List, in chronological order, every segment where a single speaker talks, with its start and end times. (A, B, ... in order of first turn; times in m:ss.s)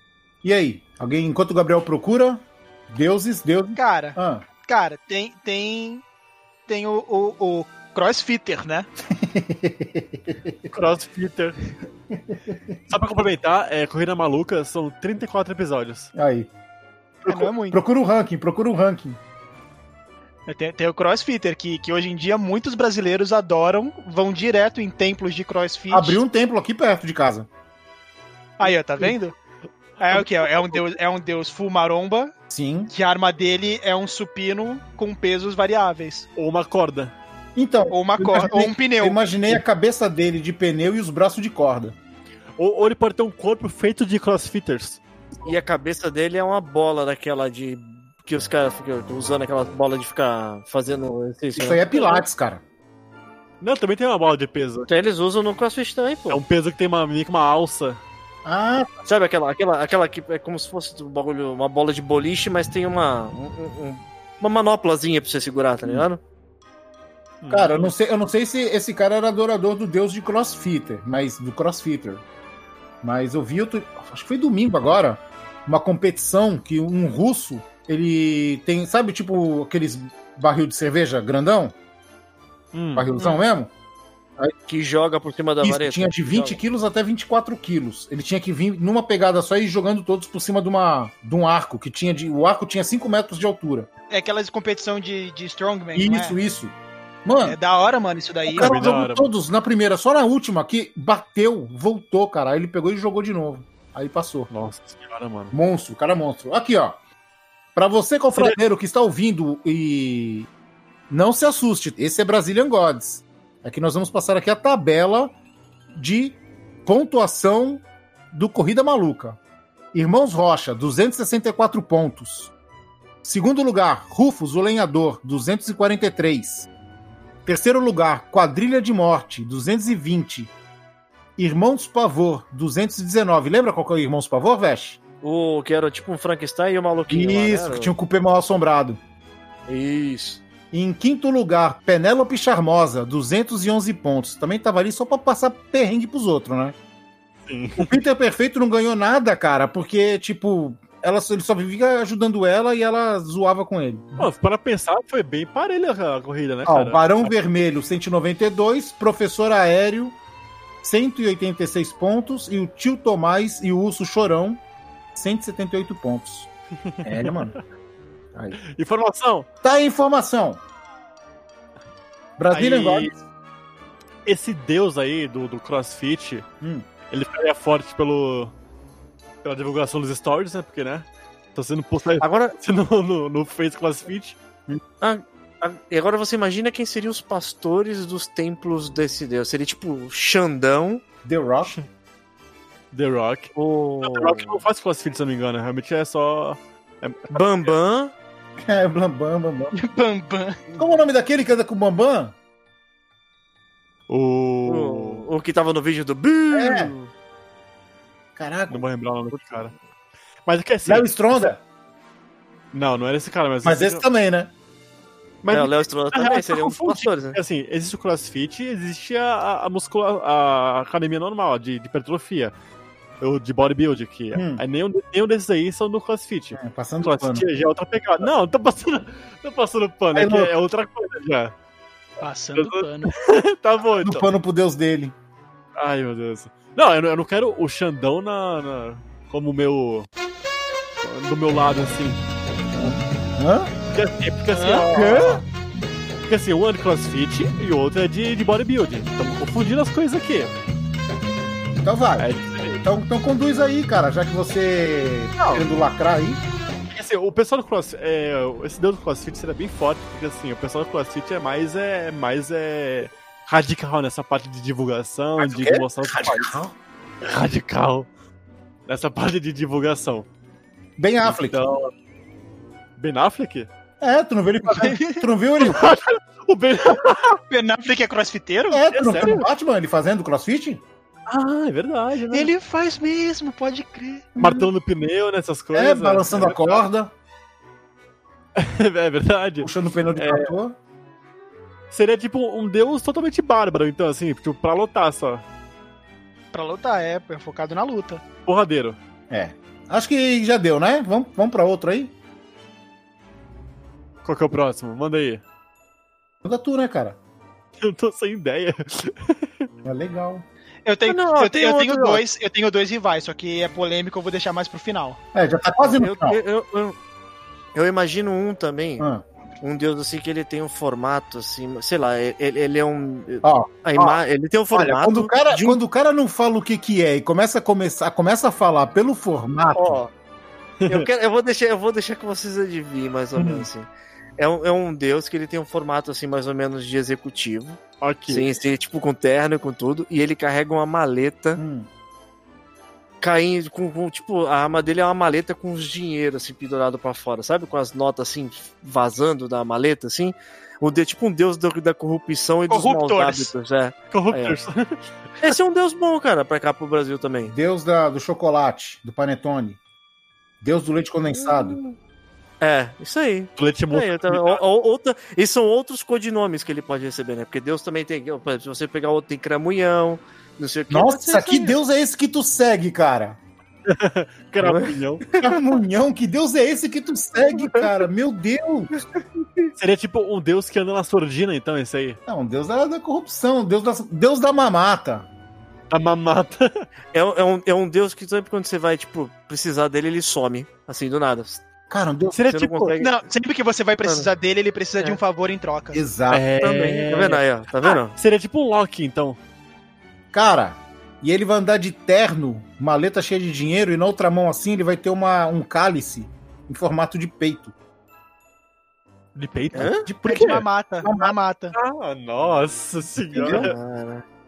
0:00.4-0:04.4 A
0:03.8-0:06.0 B
0:06.7-0:08.9 B
0:09.1-0:10.7 A
0:10.7-0:11.6 C
0:12.3-0:12.8 A
0:12.9-0:16.1 C
0:16.1-0:16.5 A
0:17.2-0:17.8 B
0:17.7-0:19.2 A
0:20.5-0:26.2 B
0:25.9-0:27.5 A
0:28.6-0:29.3 B
0:28.6-0:29.1 C
0:30.0-0:32.3 B
0:30.0-0:30.9 C
0:32.5-0:32.9 A
0:32.9-0:36.3 B
0:36.4-0:37.1 C
0:37.6-0:42.0 A
0:37.9-0:39.3 B
0:42.6-0:45.5 C
0:45.4-0:52.2 D
0:51.5-0:52.6 A
0:53.6-0:54.9 C
0:54.9-0:56.4 D
0:56.3-0:58.0 C
0:58.4-0:58.9 A
0:59.0-1:06.2 D
1:07.4-1:07.9 C
1:07.5-1:12.2 A
1:13.0-1:21.7 A
1:22.7-1:23.3 C
1:22.9-1:23.7 A
1:24.7-1:26.6 D
1:25.6-1:33.9 A
1:34.1-1:36.4 B
1:35.9-1:37.6 A
1:37.4-1:38.7 B
1:38.5-1:44.5 A
1:38.5-1:39.3 C
1:44.5-1:45.5 C
1:45.5-1:47.0 A
1:47.7-1:50.5 A
1:51.1-1:55.3 A
1:55.9-1:59.4 A
1:59.9-2:02.5 A
2:03.2-2:06.7 A
2:07.4-2:10.5 A
2:11.4-2:15.0 A
2:15.2-2:17.9 D
2:17.1-2:19.0 A
2:19.7-2:20.4 D
2:20.7-2:26.8 A
2:27.5-2:28.0 C
2:27.8-2:34.3 A
2:34.2-2:37.3 C
2:36.6-2:40.2 A
2:40.8-2:44.6 A
2:45.1-2:46.5 A
2:46.9-2:47.6 C
2:47.0-2:47.5 A
2:48.3-2:48.6 A
2:48.6-2:49.5 C
2:49.6-2:50.6 A
2:52.4-2:53.2 A
2:52.5-2:53.1 C
2:54.2-2:56.4 C
2:56.6-2:56.9 A
2:57.1-2:58.5 C
2:59.4-3:04.4 C
3:02.2-3:02.5 D
3:05.0-3:11.0 D
3:11.2-3:11.7 A
3:12.9-3:13.5 C
3:13.5-3:14.6 D
3:14.0-3:17.7 C
3:17.3-3:18.1 D
3:18.6-3:19.7 A
3:19.7-3:20.6 B
3:20.8-3:22.3 A
3:24.1-3:25.3 C
3:24.7-3:27.1 D
3:26.5-3:26.9 A
3:28.4-3:28.8 A
3:28.7-3:29.7 C
3:30.4-3:31.5 C
3:30.8-3:31.6 A
3:32.7-3:34.0 C
3:33.6-3:34.5 A
3:35.4-3:42.5 C
3:35.5-3:37.4 D
3:43.2-3:51.5 C
3:44.3-3:44.6 A
3:46.5-3:47.5 A
3:50.1-3:50.5 A
3:52.2-3:53.1 B
3:52.6-3:54.3 C
3:54.0-3:55.1 A
3:55.8-4:00.1 C
4:01.0-4:02.2 C
4:02.7-4:03.7 A
4:03.9-4:05.4 C
4:04.6-4:05.4 D
4:04.9-4:05.4 A
4:06.3-4:10.5 C
4:11.8-4:12.3 A
4:12.2-4:12.8 C
4:12.8-4:16.4 A
4:15.4-4:15.6 C
4:16.9-4:26.6 C
4:25.4-4:26.7 A
4:27.2-4:28.1 C
4:28.9-4:30.3 C
4:31.0-4:31.6 A
4:31.2-4:31.9 C
4:33.0-4:33.7 C
4:34.0-4:35.8 A
4:34.8-4:35.2 B
4:35.6-4:37.4 C
4:37.5-4:38.8 B
4:38.7-4:40.8 A
4:38.9-4:39.4 C
4:41.3-4:42.5 C
4:42.3-4:44.3 B
4:44.4-4:44.7 A
4:44.4-4:46.8 C
4:45.7-4:47.1 A
4:48.6-4:50.5 C
4:49.6-4:50.8 A
4:51.9-4:55.4 C
4:56.5-4:58.2 B
4:58.4-4:59.0 C
4:59.3-5:02.1 A
5:04.2-5:05.4 C
5:06.4-5:07.2 A
5:07.8-5:09.7 C
5:09.8-5:10.4 A
5:10.8-5:15.2 B
5:11.0-5:12.2 D
5:15.3-5:16.4 A
5:15.8-5:17.0 D
5:17.7-5:19.0 D
5:19.0-5:19.2 A
5:19.6-5:25.8 D
5:23.4-5:30.0 A
5:29.7-5:30.1 D
5:30.8-5:31.1 C
5:30.9-5:41.6 D
5:33.3-5:33.7 A
5:38.0-5:38.5 C
5:41.6-5:41.9 A
5:43.2-5:54.6 D
5:52.7-5:53.5 B
5:54.1-5:55.5 C
5:55.4-5:57.6 D
5:57.4-5:59.8 A
6:00.6-6:01.8 A
6:01.3-6:02.0 D
6:02.6-6:11.8 D
6:03.6-6:04.6 C
6:10.9-6:13.4 A
6:13.9-6:15.2 C
6:14.6-6:15.5 D
6:15.4-6:18.9 A
6:18.9-6:19.7 D
6:19.8-6:22.2 C
6:22.3-6:25.3 A
6:25.9-6:26.8 C
6:27.1-6:31.6 D
6:31.9-6:32.4 A
6:32.3-6:33.0 C
6:32.5-6:33.1 D
6:33.0-6:36.0 B
6:34.0-6:34.3 D
6:35.9-6:36.5 A
6:36.3-6:39.4 C
6:36.6-6:38.1 D
6:40.3-6:47.7 A
6:49.3-6:50.6 C
6:49.7-6:50.0 D
6:50.0-6:51.3 A
6:50.2-6:51.7 B
6:51.7-6:53.7 C
6:53.3-6:53.7 A
6:53.4-6:54.2 D